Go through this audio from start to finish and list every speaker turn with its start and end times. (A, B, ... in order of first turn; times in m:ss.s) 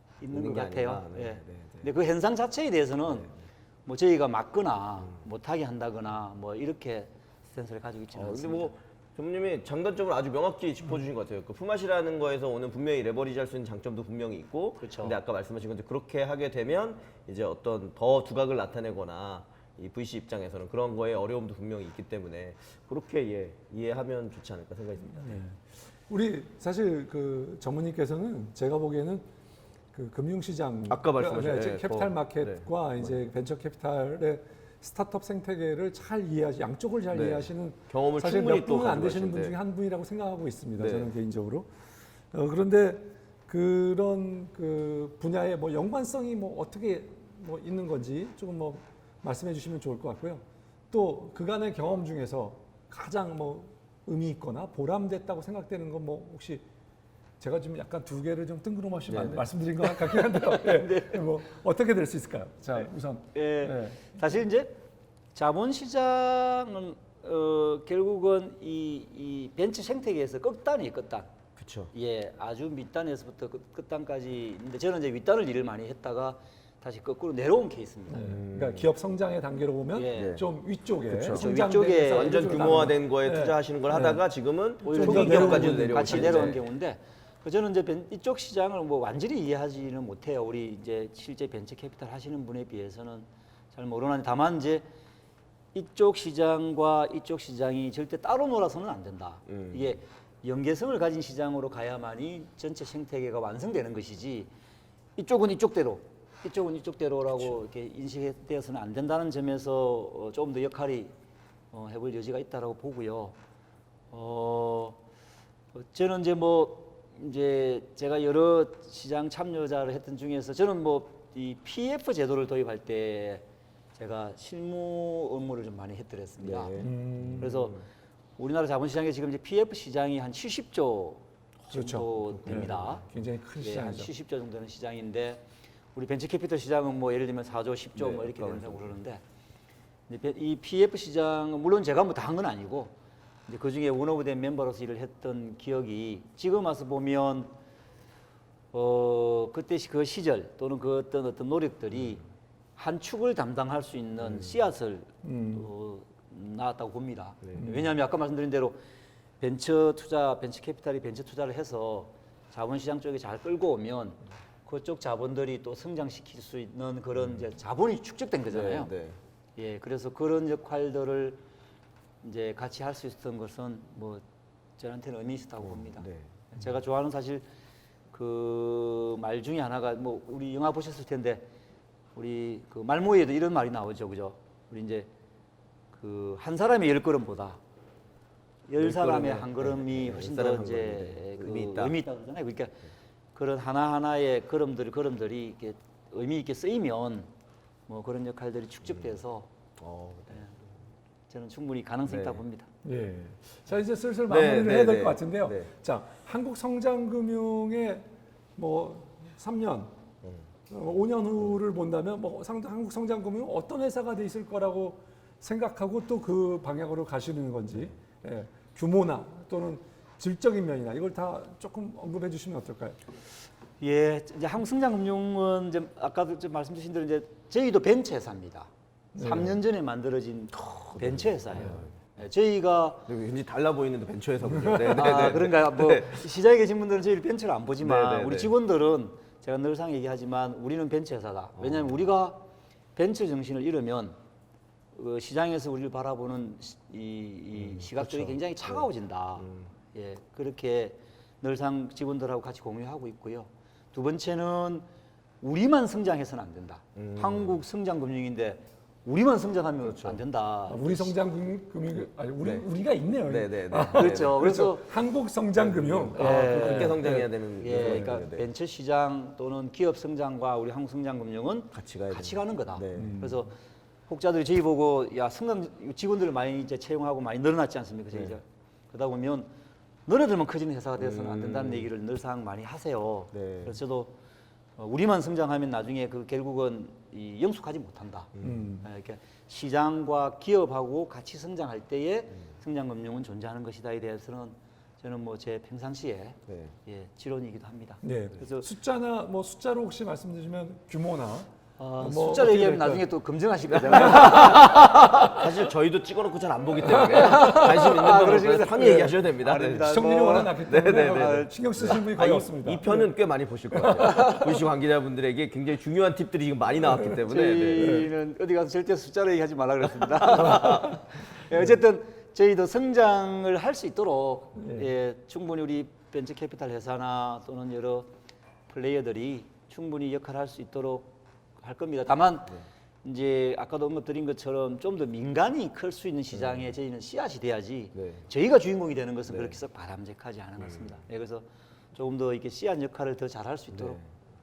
0:00.2-0:03.3 A
0:00.3-0:01.9 B
0:03.1-0:03.3 B
0:03.8-0:08.7 A
0:08.1-0:25.4 B
0:14.8-0:15.2 A
0:25.2-0:29.2 C
0:29.9-0:41.7 C
0:30.9-0:33.1 B
0:37.1-0:39.6 B
0:40.8-0:41.1 B
0:42.3-0:56.6 C
0:57.4-1:04.1 C
0:59.1-0:59.4 B
1:00.3-1:01.2 A
1:03.3-1:04.8 A
1:05.3-1:11.3 A
1:11.6-1:11.9 B
1:11.9-1:18.3 A
1:18.1-1:24.2 C
1:18.2-1:18.9 B
1:19.9-1:20.4 A
1:20.1-1:20.4 B
1:21.1-1:26.6 B
1:21.3-1:22.7 A
1:24.8-1:34.8 A
1:24.9-1:26.5 C
1:35.7-1:44.5 A
1:39.5-1:40.0 B
1:45.2-1:51.1 A
1:51.7-1:53.4 A
1:54.1-1:55.0 A
1:55.7-2:06.7 A
2:06.4-2:07.8 B
2:06.8-2:07.7 C
2:07.4-2:07.8 A
2:08.4-2:13.0 A
2:11.7-2:14.1 C
2:12.2-2:13.0 B
2:13.6-2:19.2 A
2:18.0-2:18.9 B
2:20.1-2:22.9 A
2:23.5-2:27.5 A
2:28.7-2:32.2 A
2:32.8-2:38.8 A
2:34.2-2:34.5 B
2:35.2-2:35.7 C
2:37.5-2:37.9 C
2:39.4-2:48.9 A
2:48.5-2:49.2 B
2:49.6-2:51.4 A
2:52.2-2:54.2 A
2:54.8-2:57.4 A
2:55.6-2:56.3 B
2:58.1-3:01.5 A
3:02.2-3:05.1 A
3:05.9-3:07.6 A
3:08.7-3:12.8 A
3:08.8-3:12.0 B
3:13.3-3:17.3 A
3:17.9-3:19.5 A
3:19.8-3:20.5 B
3:21.3-3:22.7 A
3:22.0-3:22.4 B
3:22.8-3:29.9 C
3:24.3-3:25.7 B
3:30.7-3:43.0 C
3:43.8-3:53.1 A
3:49.2-3:49.5 C
3:50.6-3:51.9 B
3:53.1-3:56.2 B
3:54.5-3:54.8 C
3:54.8-4:02.4 A
3:57.8-3:58.5 B
4:01.6-4:02.0 B
4:02.9-4:04.2 A
4:04.9-4:14.8 A
4:07.5-4:08.9 B
4:09.4-4:09.7 B
4:15.4-4:21.1 A
4:17.0-4:17.6 B
4:19.8-4:20.2 B
4:20.7-4:28.1 C
4:22.4-4:22.6 B
4:23.3-4:24.6 B
4:23.9-4:24.8 A
4:25.6-4:28.5 B
4:26.2-4:33.6 A
4:31.7-4:33.2 B
4:32.9-4:33.4 C
4:34.1-4:39.5 A
4:40.1-4:44.2 A
4:41.0-4:41.9 B
4:43.3-4:43.8 B
4:44.8-4:48.3 A
4:48.3-4:48.6 B
4:48.4-4:48.8 C
4:48.8-4:58.7 A
4:56.5-4:56.7 B
4:58.0-5:03.1 C
5:01.8-5:05.4 A
5:03.7-5:18.0 B
5:04.1-5:05.2 C
5:06.8-5:07.7 C
5:06.9-5:11.5 A
5:08.8-5:09.1 C
5:09.8-5:13.1 C
5:13.7-5:14.4 C
5:16.8-5:17.2 C
5:17.1-5:28.1 A
5:17.8-5:18.1 C
5:20.4-5:20.9 B
5:20.4-5:20.9 C
5:24.6-5:24.9 C
5:28.7-5:44.0 A
5:36.3-5:36.7 B
5:37.9-5:38.2 B
5:39.3-5:39.6 B
5:43.7-5:44.0 B